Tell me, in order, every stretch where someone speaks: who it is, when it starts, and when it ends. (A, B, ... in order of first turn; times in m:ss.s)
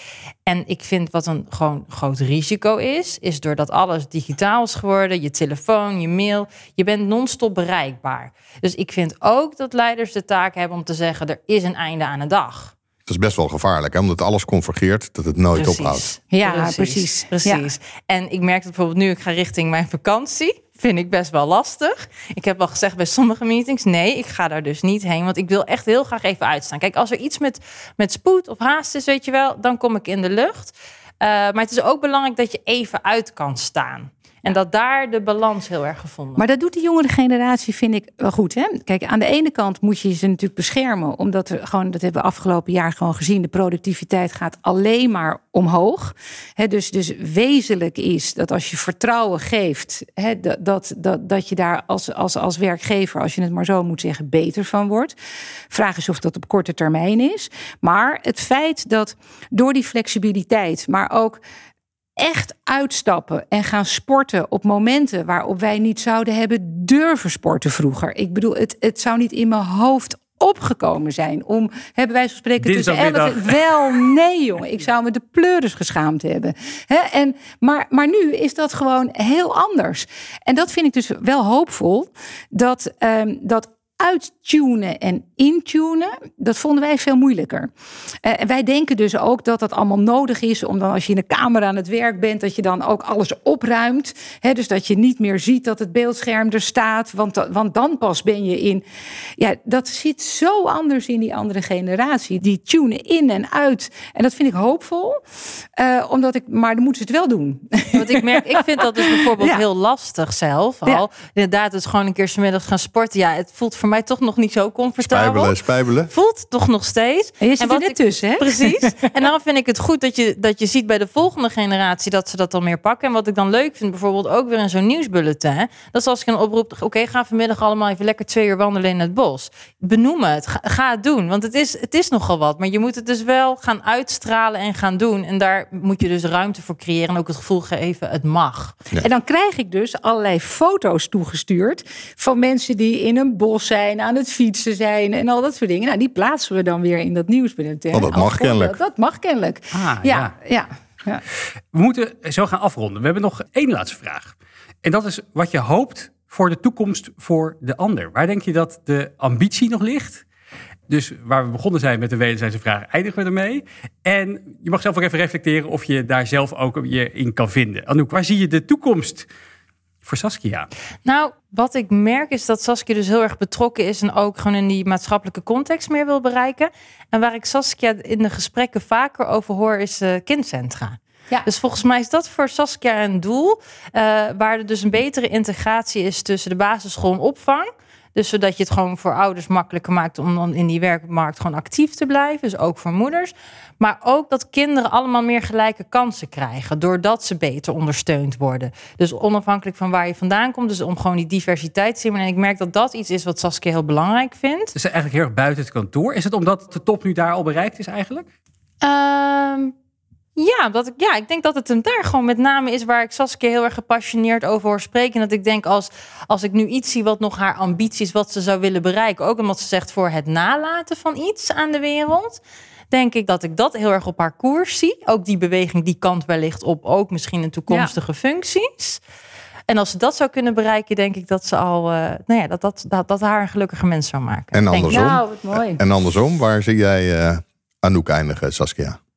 0:00.4-0:12.7 A
0:13.1-0:16.1 B
0:15.5-0:36.4 A
0:16.3-0:17.6 C
0:36.4-0:55.1 C
0:55.7-1:01.4 C
1:02.2-1:27.7 C
1:12.6-1:13.6 D
1:28.2-1:38.8 C
1:39.4-1:45.2 C
1:45.8-1:49.6 C
1:47.9-1:55.5 A
1:55.0-1:56.1 B
1:56.1-2:18.8 A
1:57.4-1:59.0 C
2:19.0-2:31.2 C
2:27.9-2:28.8 B
2:29.7-2:30.3 D
2:31.7-2:40.2 D
2:40.9-2:49.3 D
2:50.0-2:50.7 D
2:51.0-3:24.7 A
3:24.8-3:28.3 D
3:28.8-3:29.7 A
3:30.4-3:49.0 A
3:49.7-3:55.1 A
3:54.5-3:59.0 B
3:54.9-3:55.8 C